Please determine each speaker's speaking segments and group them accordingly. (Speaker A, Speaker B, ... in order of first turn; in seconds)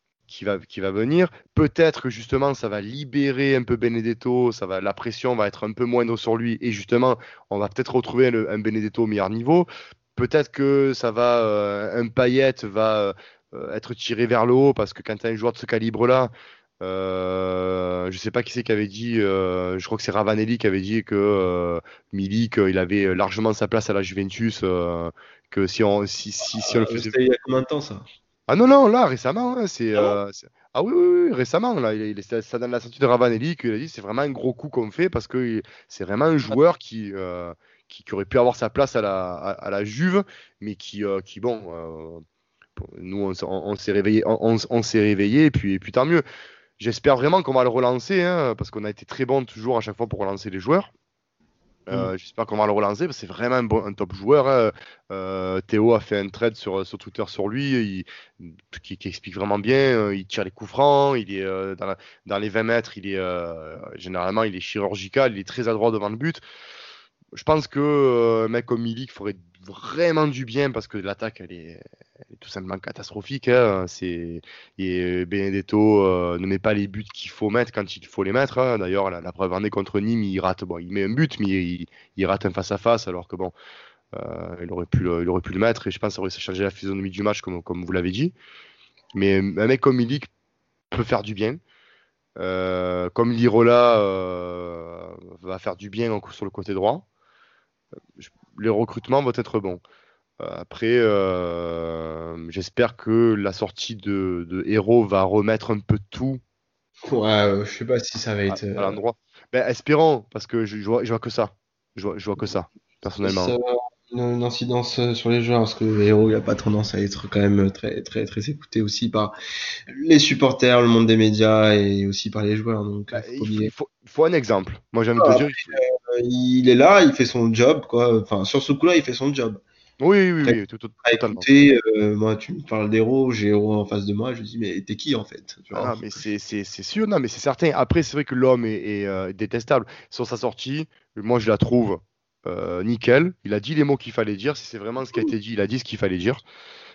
Speaker A: 0.3-27.1, 28.5-42.2, 42.8-46.2, 46.8-50.9, 51.9-66.4, 67.3-83.5, 84.1-88.3, 89.1-90.3, 90.9-91.6, 92.4-97.1, 98.2-99.8, 100.4-106.4, 108.5-113.5, 123.1-125.8, 130.0-131.5, 135.7-146.4
Speaker B: 26.6-28.1, 107.1-109.0, 113.2-119.3, 119.9-123.7, 125.2-129.6, 130.4-135.9